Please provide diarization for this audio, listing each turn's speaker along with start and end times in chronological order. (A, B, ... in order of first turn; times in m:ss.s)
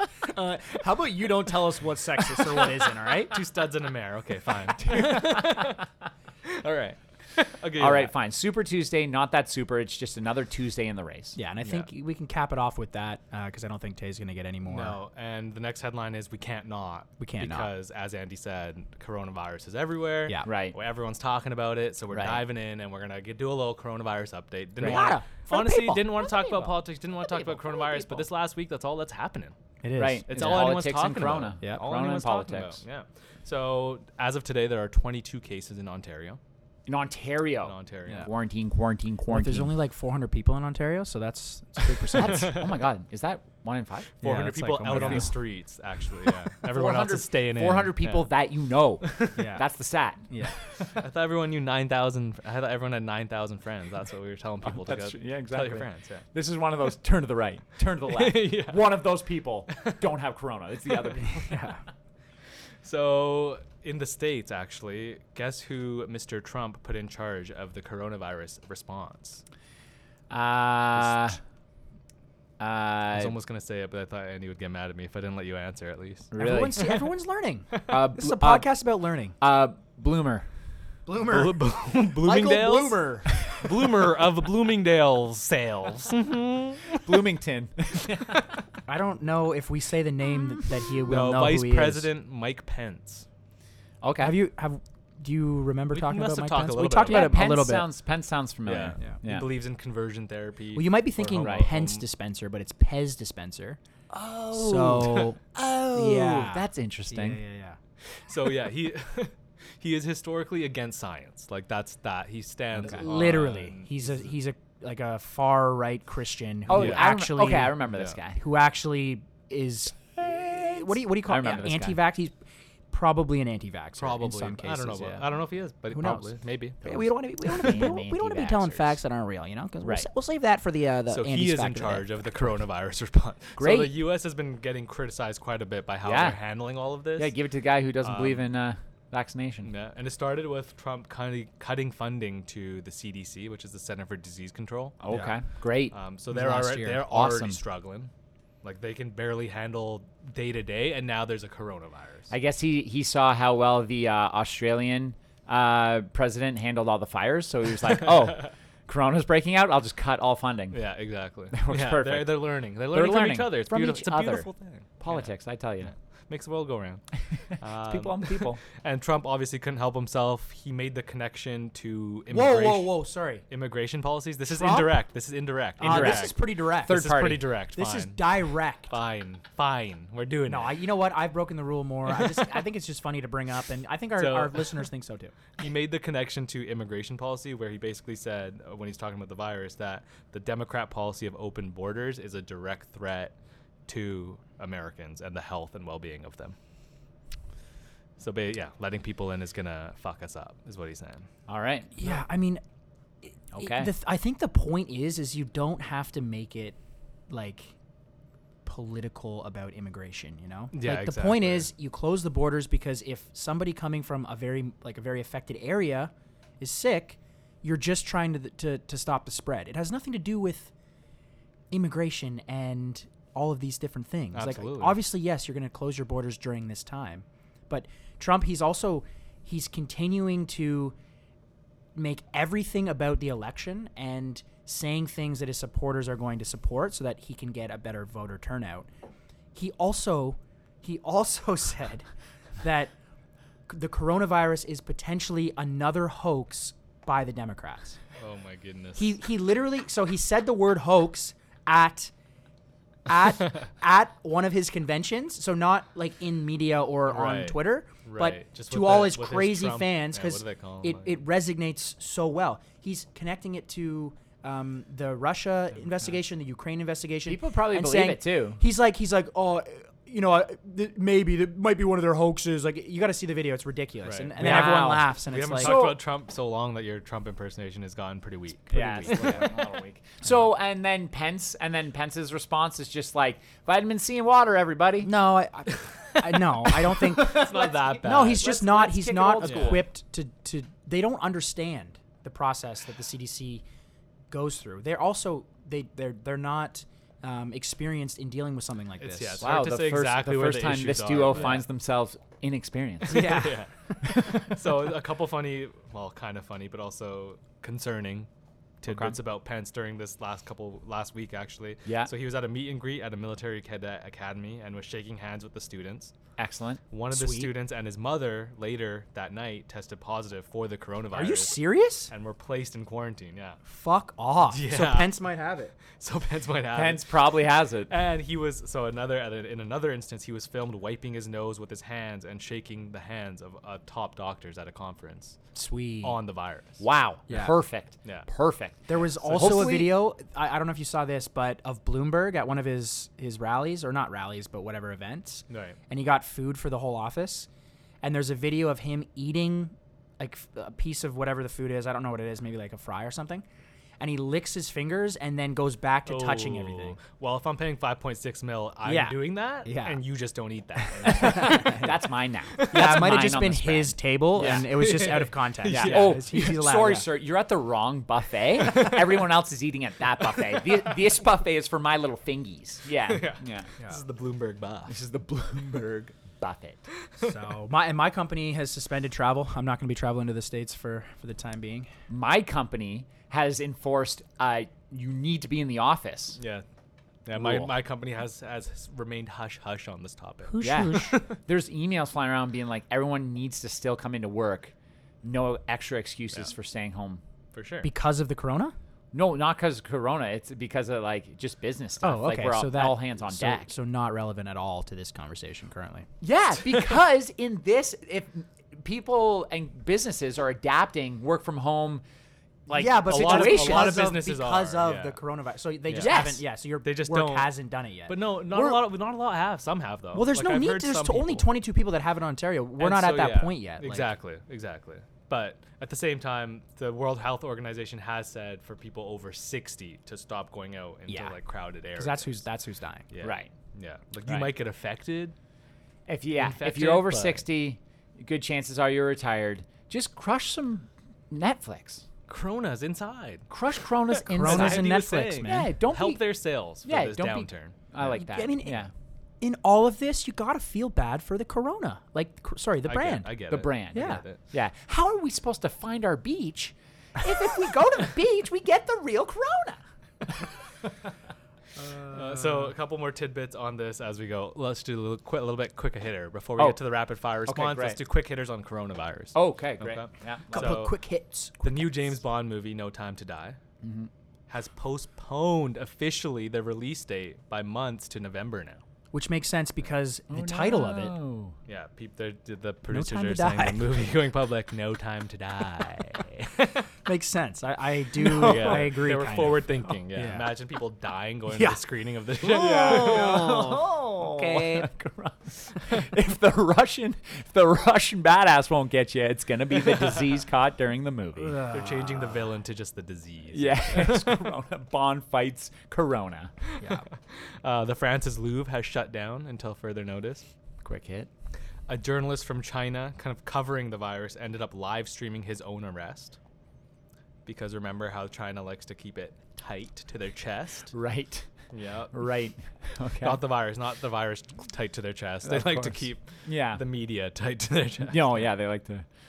0:00.3-0:03.4 A
0:03.3-0:05.9 B
0:04.9-0:05.7 C
0:06.4-0:08.1 B
0:07.8-0:11.4 C
0:11.4-0:15.0 A
0:11.6-0:11.9 B
0:14.7-0:29.6 B
0:17.2-0:17.7 A
0:20.4-0:20.8 C
0:22.1-0:22.4 C
0:24.8-0:25.2 C
0:24.8-0:26.0 A
0:26.1-0:28.3 C
0:29.8-0:30.6 A
0:30.0-0:32.8 C
0:30.3-0:36.4 B
0:36.9-0:39.7 C
0:37.6-0:38.3 B
0:39.3-0:42.6 A
0:42.1-0:44.1 C
0:42.2-0:42.6 B
0:44.2-0:48.3 B
0:44.2-0:45.4 A
0:44.9-0:45.3 C
0:46.6-0:50.2 C
0:49.0-0:49.4 B
0:49.4-0:49.6 A
0:50.3-0:50.6 A
0:50.8-0:56.2 B
0:54.6-1:01.6 C
0:58.1-0:59.0 B
0:59.7-1:00.0 B
1:01.3-1:01.8 A
1:02.8-1:09.4 B
1:10.3-1:11.4 C
1:12.6-1:13.4 C
1:13.1-1:16.3 B
1:16.3-1:17.0 C
1:16.3-1:19.4 A
1:17.9-1:18.7 C
1:19.4-1:20.5 C
1:21.1-1:21.6 A
1:21.2-1:27.2 B
1:22.2-1:23.6 A
1:27.0-1:28.6 C
1:28.9-1:32.1 A
1:31.1-1:33.2 B
1:34.0-1:34.4 C
1:34.2-1:37.9 A
1:35.9-1:37.5 B
1:37.0-1:39.5 C
1:38.7-1:42.0 B
1:40.8-1:43.8 A
1:41.4-1:41.7 C
1:44.1-1:47.4 C
1:44.5-1:45.4 A
1:45.9-1:47.8 A
1:48.2-1:54.3 B
1:52.8-1:53.2 C
1:52.8-1:57.8 A
1:56.7-1:58.4 C
1:56.7-1:57.1 B
1:57.9-1:58.2 B
1:58.4-2:02.3 A
2:00.2-2:02.0 C
2:02.9-2:05.3 A
2:04.0-2:06.8 B
2:05.9-2:12.5 A
2:06.8-2:09.0 C
2:09.8-2:10.1 C
2:11.1-2:17.3 B
2:13.6-2:14.0 C
2:16.0-2:16.4 C
2:17.2-2:19.7 C
2:18.0-2:18.5 B
2:19.6-2:25.3 B
2:25.0-2:27.6 C
2:25.9-2:28.1 B
2:28.6-2:32.3 B
2:32.3-2:40.8 C
2:40.7-2:45.3 B
2:41.5-2:44.5 C
2:45.0-2:45.9 C
2:45.8-2:53.0 B
2:47.8-2:48.6 C
2:52.3-2:53.4 A
2:53.5-3:00.8 B
2:54.5-2:55.0 A
2:55.8-2:57.2 A
2:55.8-2:57.5 C
2:57.8-2:59.0 A
3:00.5-3:05.4 A
3:02.2-3:02.5 B
3:04.2-3:04.8 B
3:05.6-3:13.3 B
3:13.9-3:16.6 B
3:18.2-3:21.3 B
3:21.5-3:21.9 C
3:22.0-3:22.6 A
3:23.2-3:26.8 A
3:23.5-3:23.9 C
3:27.3-3:27.7 A
3:28.6-3:40.7 A
3:30.7-3:31.7 B
3:41.7-3:51.0 A
3:44.3-3:45.0 B
3:52.0-3:58.9 A
3:59.5-4:02.1 A
4:02.6-4:02.9 A
4:03.7-4:08.0 A
4:08.2-4:09.2 B
4:09.0-4:12.1 A
4:13.1-4:35.8 A
4:17.1-4:21.2 B
4:27.3-4:28.6 C
4:34.0-4:39.5 B
4:34.4-4:36.0 C
4:38.7-4:45.1 C
4:38.7-4:39.5 A
4:45.0-4:53.6 A
4:45.8-4:48.6 B
4:47.1-4:49.9 C
4:49.4-4:49.8 B
4:54.3-4:59.4 A
4:59.0-5:01.6 B
4:59.4-5:03.4 C
5:03.1-5:03.6 A
5:03.1-5:08.3 B
5:08.8-5:16.1 B
5:08.8-5:09.2 C
5:16.4-5:16.8 C
5:16.9-5:23.6 B
5:17.1-5:17.5 A
5:21.1-5:22.1 A
5:23.7-5:25.8 A
5:24.5-5:25.2 B
5:25.9-5:27.2 B
5:26.7-5:27.9 C
5:27.9-5:35.4 B
5:35.6-5:36.2 A
5:36.0-5:36.8 B
5:36.8-5:40.0 C
5:37.3-5:37.6 A
5:38.9-5:47.5 A
5:39.2-5:39.7 B
5:45.5-5:45.8 B
5:48.0-5:53.4 A
5:54.0-5:57.0 A
5:56.1-6:02.0 B
5:58.8-6:00.0 A
6:00.9-6:02.0 A
6:01.0-6:04.9 C
6:02.6-6:03.2 B
6:02.7-6:07.1 A
6:04.4-6:06.4 B
6:05.7-6:13.7 C
6:08.7-6:09.0 B
6:13.1-6:15.0 B
6:14.9-6:16.8 C
6:17.2-6:21.9 A
6:22.1-6:26.4 C
6:26.4-6:26.6 B
6:27.3-6:31.4 B
6:27.4-6:27.7 C
6:30.5-6:31.1 A
6:30.6-6:37.2 C
6:37.5-6:37.9 B
6:37.8-6:38.7 A
6:39.1-6:43.7 C
6:42.0-6:46.1 A
6:46.2-6:52.0 C
6:52.7-6:54.1 C
6:52.7-6:58.8 A
6:53.1-6:55.2 B
6:55.9-6:56.2 B
6:56.0-6:56.4 C
6:56.8-6:57.5 B
6:58.1-7:01.5 B
7:00.1-7:04.1 A
7:02.8-7:12.4 B
7:11.1-7:11.4 A
7:11.9-7:13.0 A
7:13.1-7:15.4 B
7:13.2-7:13.5 C
7:14.3-7:14.5 C
7:16.1-7:22.0 C
7:16.4-7:17.4 B
7:22.3-7:23.5 B
7:23.5-7:26.2 C
7:24.1-7:27.8 B
7:24.3-7:25.7 A
7:26.8-7:28.9 C
7:28.2-7:28.9 A
7:29.4-7:33.3 A
7:32.8-7:34.4 B
7:33.5-7:40.4 C
7:33.9-7:34.2 A
7:42.1-7:51.0 B
7:47.5-7:48.0 C
7:49.4-7:50.8 C
7:50.5-7:51.8 A
7:51.6-7:53.6 B
7:53.8-7:54.1 C
7:54.5-7:58.8 B
7:59.1-8:01.1 A
8:00.3-8:01.6 C
8:01.7-8:06.9 B
8:02.9-8:03.9 A
8:07.1-8:10.5 A
8:08.2-8:13.4 B
8:08.5-8:08.8 C
8:11.5-8:11.8 A
8:12.4-8:21.6 C
8:12.6-8:14.9 A
8:21.4-8:22.4 A
8:21.7-8:24.5 B
8:23.5-8:26.5 C
8:26.7-8:30.5 B
8:26.8-8:27.0 A
8:30.8-8:31.3 C
8:31.9-8:36.4 B
8:37.5-8:40.9 B
8:40.9-8:41.5 C
8:41.7-8:42.3 B
8:42.1-8:43.4 C
8:43.2-8:48.5 B
8:45.4-8:46.8 C
8:48.0-8:49.1 C